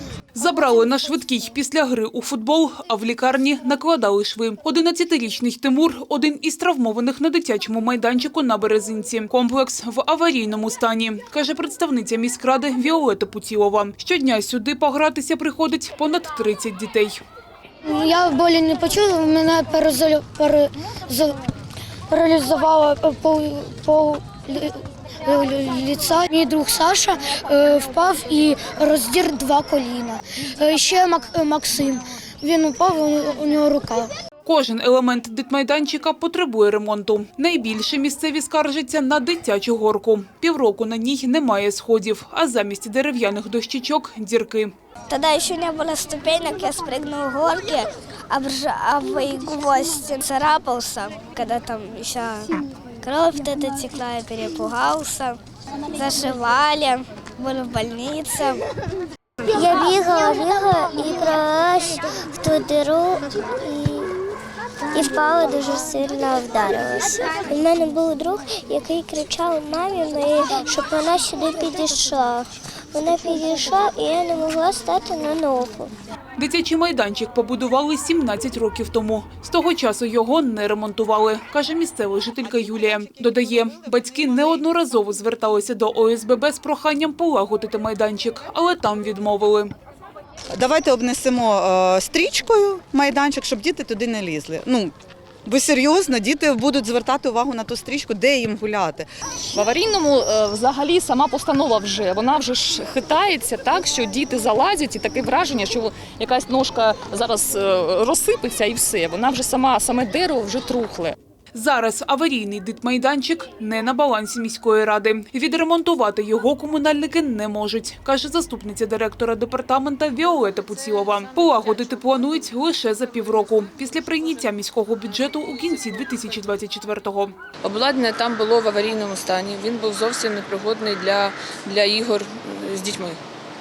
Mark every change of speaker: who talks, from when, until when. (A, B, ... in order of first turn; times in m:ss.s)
0:00.3-0:17.2 A
0:17.8-0:21.4 B
0:22.1-0:34.1 B
0:34.4-0:44.7 A
0:45.1-0:55.4 C
0:55.9-0:58.6 C
0:59.5-1:04.2 D
1:04.9-1:15.9 D
1:16.4-1:29.7 A
1:30.5-1:39.1 E
1:39.5-1:51.2 F
1:51.5-2:07.3 A
2:07.6-2:13.2 G